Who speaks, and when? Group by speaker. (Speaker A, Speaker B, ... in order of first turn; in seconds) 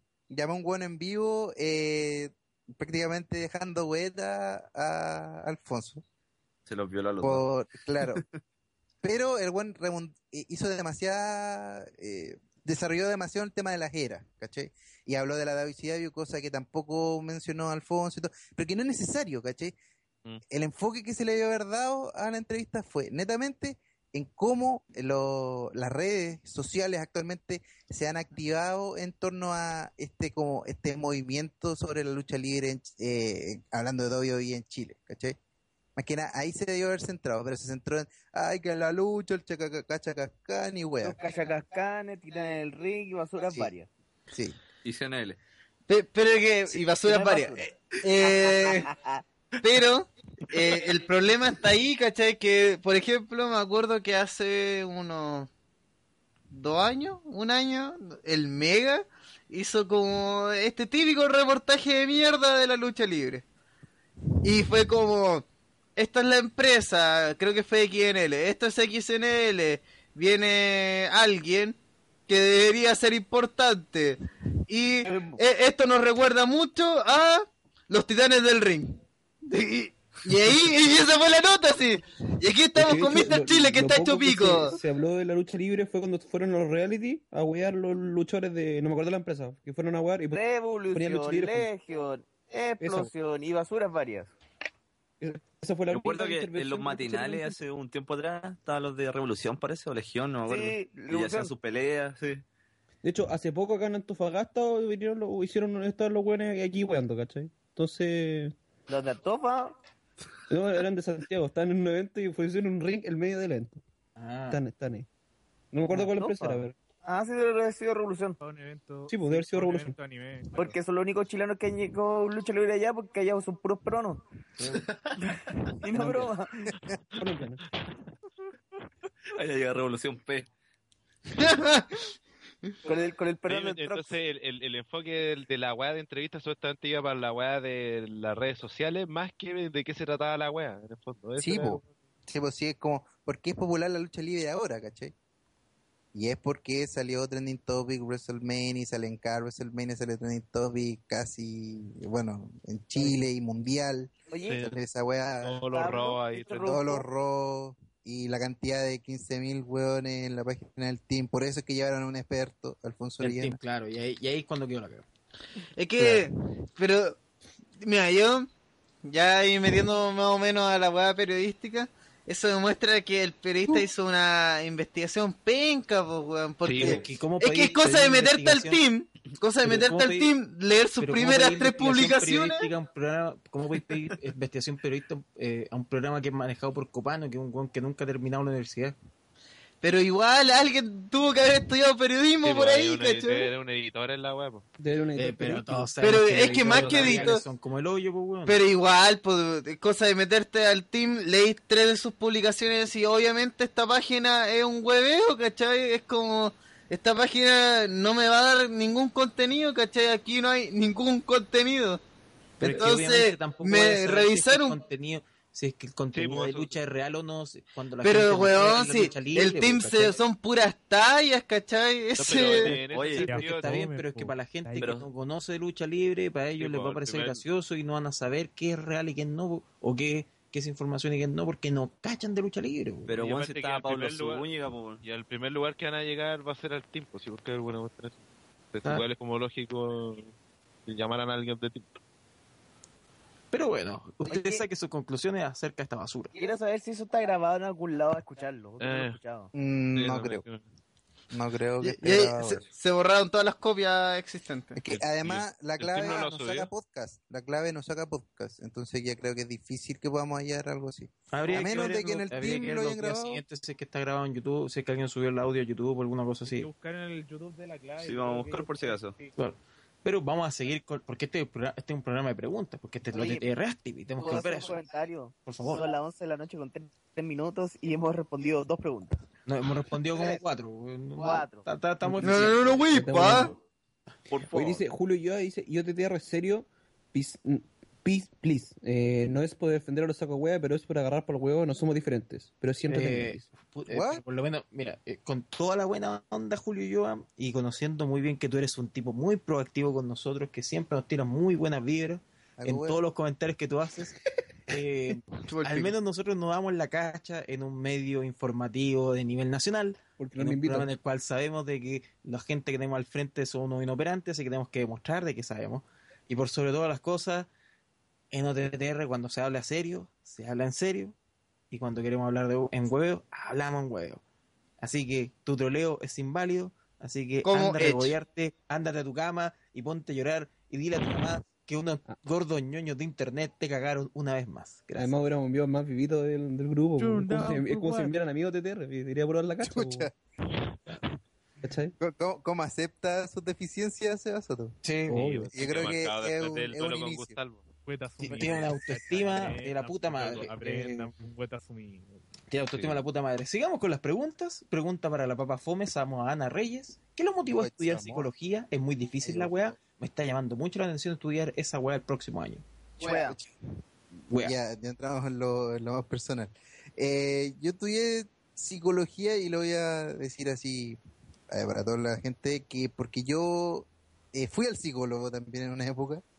Speaker A: 0.3-6.0, 7.2-8.2, 9.0-19.7, 20.5-35.4, 36.0-41.2, 44.3-44.6, 141.4-145.1, 146.1-155.6, 156.7-163.6, 249.5-250.4, 251.3-252.6, 254.8-263.4, 293.9-294.2, 302.6-303.0, 339.6-340.1, 342.0-344.8, 345.5-347.4, 357.5-358.3, 359.2-359.7, 363.0-363.5, 364.4-371.0, 371.5-376.2
Speaker B: 6.7-8.2, 44.8-45.4, 95.9-102.4, 129.3-130.5, 222.9-223.2, 224.8-225.0, 233.1-235.0, 268.0-269.2, 284.3-284.8
Speaker C: 41.0-43.9, 47.0-47.6, 48.2-49.2, 75.0-75.4, 90.3-94.3, 100.4-101.5, 108.9-109.8, 115.9-118.4, 120.5-124.2, 125.2-126.7, 132.8-134.1, 154.3-154.6, 155.7-157.0, 244.3-244.6, 246.3-249.5, 273.1-273.4, 274.2-279.2, 280.1-280.4, 281.1-281.6, 363.0-363.4
Speaker D: 45.9-48.9, 49.6-55.5, 56.5-63.4, 64.4-65.4, 66.0-71.8, 72.3-84.7, 131.3-131.9, 165.8-167.2, 167.8-168.5, 169.0-182.7, 189.8-193.5, 196.0-197.4, 198.4-212.0, 212.6-214.8, 218.0-222.7, 251.8-254.8, 282.2-283.5, 305.5-305.9, 327.4-328.1
Speaker E: 82.8-91.7, 92.8-93.1, 95.2-97.6, 103.0-108.5, 110.5-113.8, 114.5-115.1, 115.7-116.7, 119.1-120.0, 125.9-126.3, 127.2-127.6, 194.8-197.4, 282.0-283.6, 284.5-293.4, 310.2-310.9, 335.0-340.1, 341.6-341.9, 345.1-345.5
Speaker F: 114.2-114.6, 124.6-124.8, 163.2-165.0, 166.0-166.3, 176.8-178.8, 179.6-180.3, 181.0-189.0, 195.2-198.6, 212.6-220.2, 222.6-233.1, 243.5-246.3, 261.3-266.7, 269.4-274.8, 275.4-275.8, 279.4-283.4, 292.9-304.1, 304.7-317.5, 318.3-321.1, 321.7-324.2, 324.8-335.1, 344.8-345.3, 348.2-351.2, 352.5-362.6, 364.3-364.5
Speaker G: 118.4-120.7, 223.2-224.9, 266.4-269.3, 337.0-338.2, 347.8-352.2
Speaker H: 133.5-141.9, 155.4-156.8, 176.6-177.0, 192.4-194.6, 216.1-216.8, 222.2-223.8, 226.6-227.4, 233.2-234.5, 235.0-238.2, 238.7-240.3, 240.8-242.0, 248.8-249.2, 249.9-250.6, 254.9-256.7, 345.1-347.7, 352.7-353.0